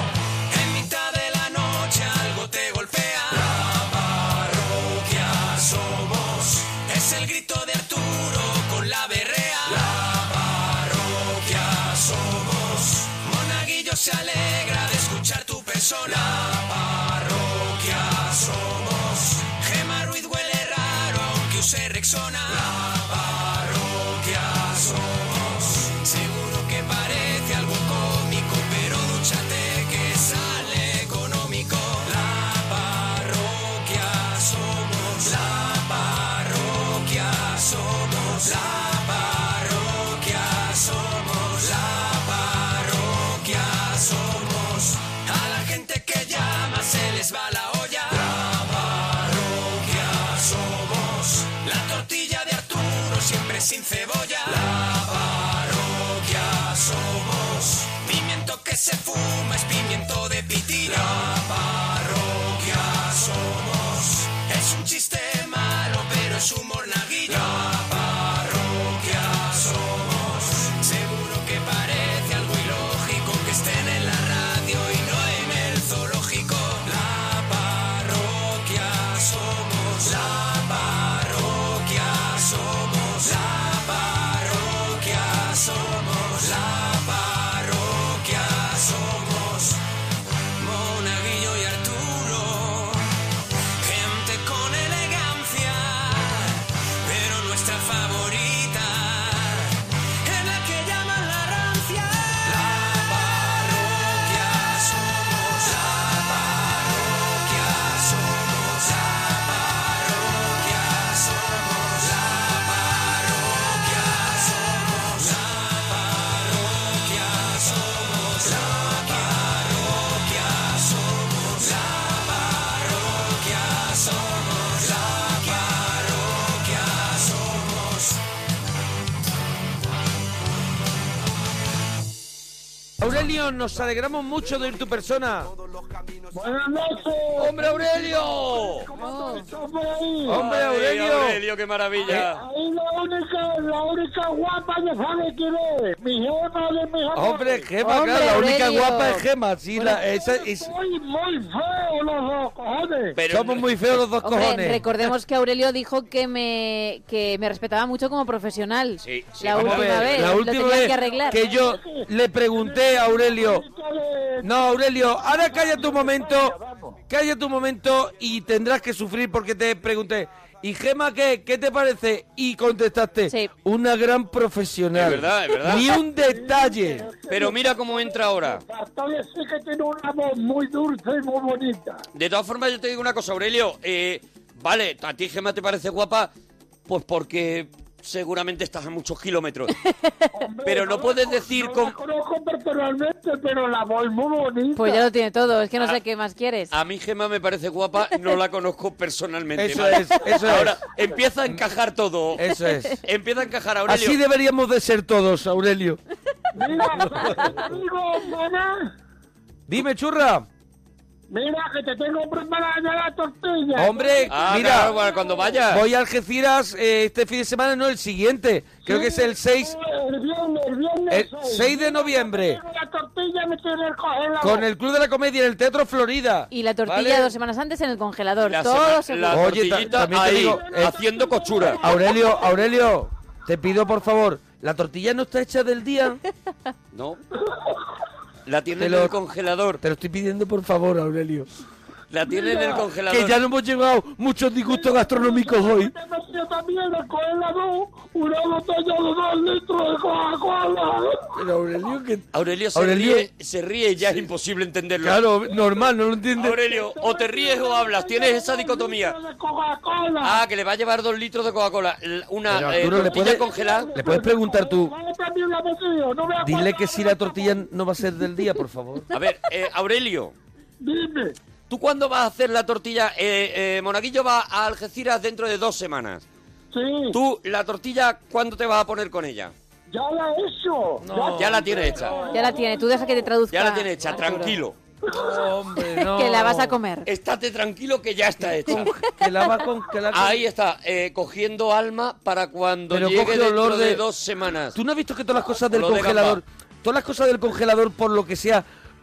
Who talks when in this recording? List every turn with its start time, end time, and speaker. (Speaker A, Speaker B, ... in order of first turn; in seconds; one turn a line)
Speaker A: 0.5-89.8
Speaker A: 90.6-93.2
Speaker A: 93.8-128.2
Speaker B: 133.0-135.5
Speaker C: 136.3-140.4
Speaker D: 137.4-138.9
Speaker B: 137.5-137.8
Speaker E: 139.0-139.4
Speaker B: 140.3-141.4
Speaker D: 140.3-142.4
Speaker C: 142.0-147.7
Speaker B: 147.1-150.7
Speaker E: 147.8-149.2
Speaker C: 149.8-153.2
Speaker D: 153.2-154.0
Speaker B: 153.3-155.1
Speaker E: 154.2-161.4
Speaker D: 159.0-160.3
Speaker B: 159.5-163.6
Speaker C: 160.8-167.0
Speaker B: 164.4-166.5
Speaker B: 167.1-177.1
Speaker D: 174.9-175.9
Speaker C: 175.7-182.0
Speaker D: 177.3-178.6
Speaker D: 182.1-186.3
Speaker D: 186.9-189.7
Speaker E: 189.8-190.2
Speaker C: 190.3-195.1
Speaker D: 190.6-191.9
Speaker E: 194.8-196.7
Speaker D: 196.7-202.4
Speaker B: 199.6-200.8
Speaker B: 202.4-203.0
Speaker D: 203.0-204.2
Speaker B: 203.9-206.0
Speaker C: 206.5-208.9
Speaker B: 206.9-207.6
Speaker B: 209.7-210.5
Speaker C: 211.3-215.6
Speaker B: 213.7-214.9
Speaker D: 214.3-215.8
Speaker B: 215.7-219.7
Speaker C: 218.8-224.7
Speaker B: 221.1-222.6
Speaker B: 224.4-227.3
Speaker E: 226.5-229.5
Speaker D: 228.4-231.8
Speaker B: 229.3-230.9
Speaker C: 229.8-232.8
Speaker B: 231.8-236.2
Speaker D: 236.9-237.2
Speaker D: 238.4-239.8
Speaker B: 238.8-239.2
Speaker B: 239.8-241.5
Speaker D: 242.1-243.4
Speaker C: 242.2-242.9
Speaker B: 243.1-245.9
Speaker C: 244.7-251.2
Speaker B: 251.3-253.3
Speaker D: 252.3-255.2
Speaker B: 255.0-256.6
Speaker D: 256.4-259.1
Speaker C: 256.4-260.4
Speaker D: 260.2-263.9
Speaker B: 262.5-264.9
Speaker C: 262.7-267.6
Speaker B: 266.4-269.1
Speaker D: 269.1-270.3
Speaker C: 270.8-271.4
Speaker D: 271.7-276.2
Speaker C: 276.7-277.2
Speaker D: 277.1-279.5
Speaker C: 279.9-283.3
Speaker B: 281.0-281.8
Speaker D: 281.4-282.2
Speaker E: 282.1-284.6
Speaker D: 283.5-284.8
Speaker B: 285.1-286.8
Speaker E: 286.1-287.1
Speaker D: 287.1-288.9
Speaker B: 288.7-290.4
Speaker E: 288.7-289.0
Speaker D: 290.1-294.8
Speaker B: 292.9-294.0
Speaker B: 294.7-298.6
Speaker D: 295.7-296.4